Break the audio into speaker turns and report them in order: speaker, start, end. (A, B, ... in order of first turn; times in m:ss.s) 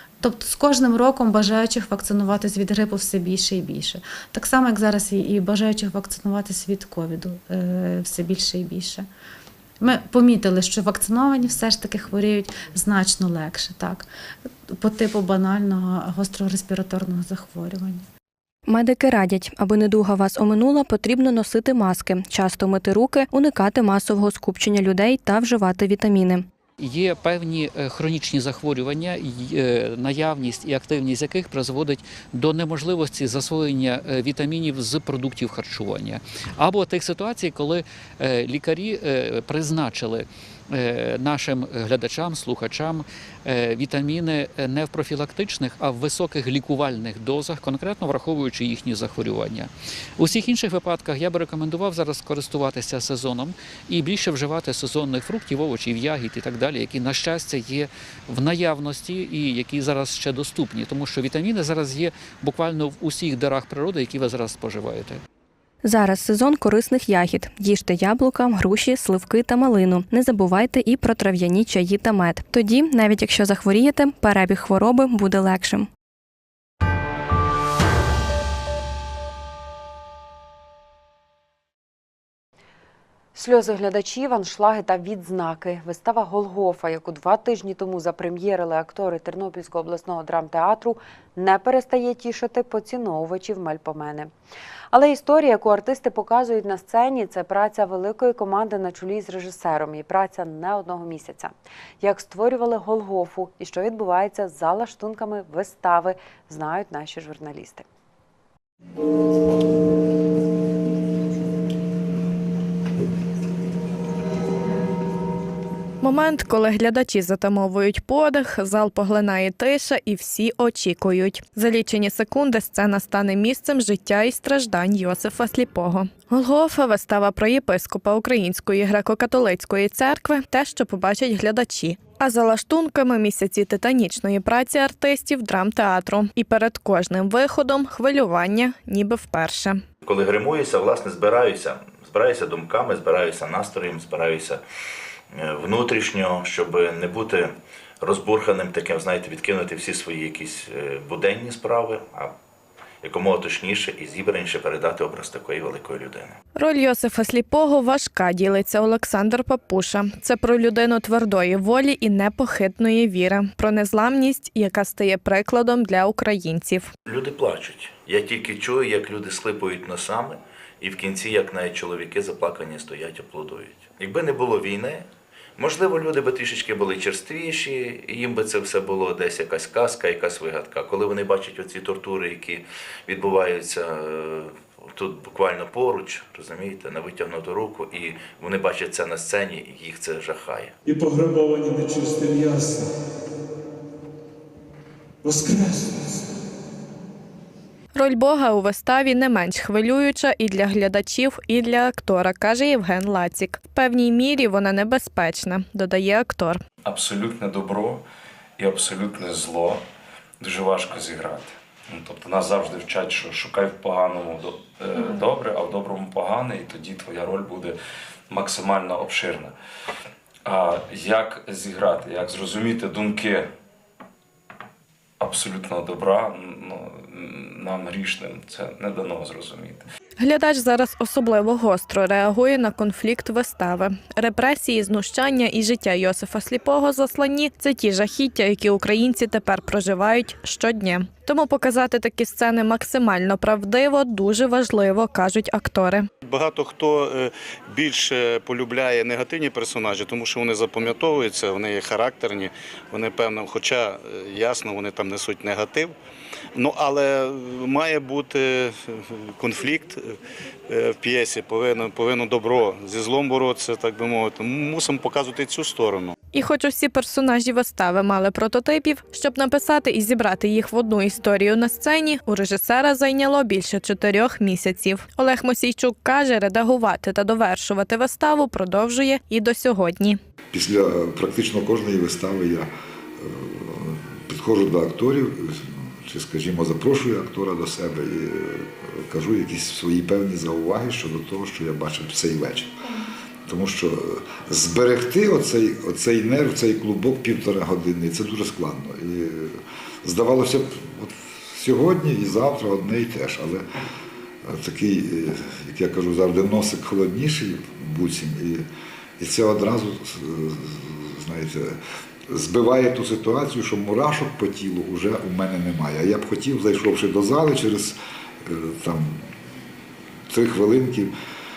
0:00.2-0:09.1 A
0:09.8-0:14.1 A
0:14.7-0:18.1 A
0:18.7-0:26.5 B
0:26.8-1:05.2 C
1:05.8-1:15.9 B
1:23.4-1:34.3 D
1:34.9-1:47.8 D
1:56.0-2:19.8 E
2:20.0-2:24.6 F
2:25.3-2:32.4 F
2:33.0-2:36.4 F
2:36.6-2:46.9 E
2:47.1-3:10.7 F
3:10.8-3:12.9 G
3:15.2-3:16.3 G
3:18.0-3:26.6 E
3:26.8-3:28.0 H
3:28.6-3:29.8 H
3:30.4-3:37.8 H
3:38.3-3:39.6 H
3:40.4-3:43.5 H
3:45.2-3:49.8 H
3:50.2-4:06.1 E
4:06.2-4:16.0 I
4:16.6-4:20.2 I
4:20.7-4:26.1 I
4:26.3-4:40.2 E
4:40.5-4:52.8 J
4:53.5-5:03.7 J
5:04.4-5:08.7 J
5:09.2-5:19.3 J
5:20.3-5:21.1 J